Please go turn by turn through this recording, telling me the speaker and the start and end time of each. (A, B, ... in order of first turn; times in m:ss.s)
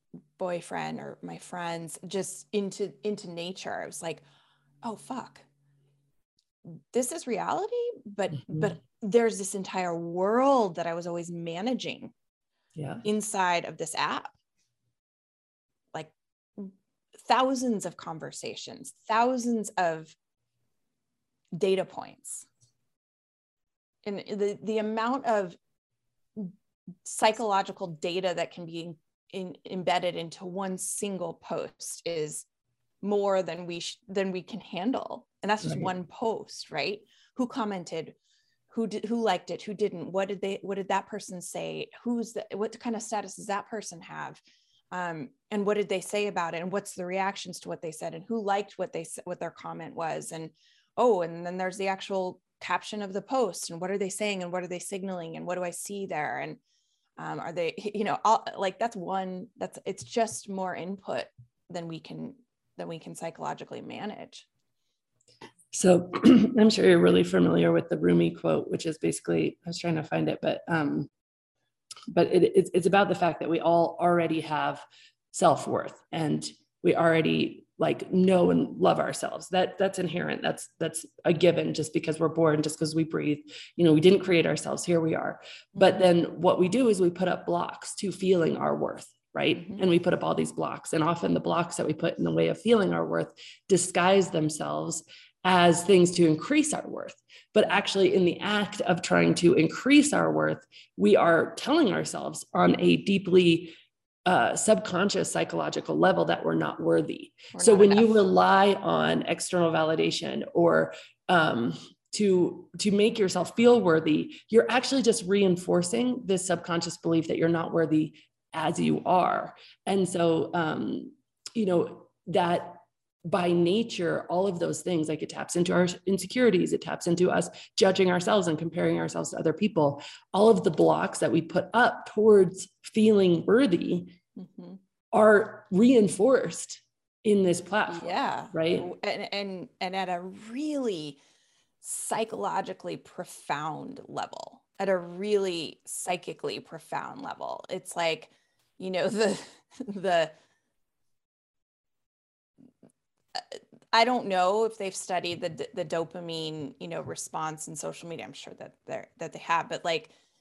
0:00.4-0:04.2 A
0:04.8-0:05.4 A
0:06.9-0:12.1 A
0:08.4-0:08.7 B
0:12.8-0:13.0 B
0:13.0-0:14.3 A
0:15.9-0:20.2 A
0:21.6-0:22.5 A
0:24.0-0:25.6 A
0:26.4-0:32.4 A
0:33.0-0:38.2 A
0:35.6-0:35.9 B
0:38.7-0:44.4 A
0:44.9-0:56.6 A
0:57.2-1:04.5 A
1:05.7-1:11.1 B
1:12.1-1:43.7 B
1:25.8-1:26.1 A
1:29.6-1:29.8 A
1:44.3-2:14.2 B
1:47.5-1:48.2 A
2:14.4-2:14.8 A
2:15.1-2:18.9 B
2:17.9-2:21.2 A
2:21.8-2:30.3 A
2:33.4-2:40.1 A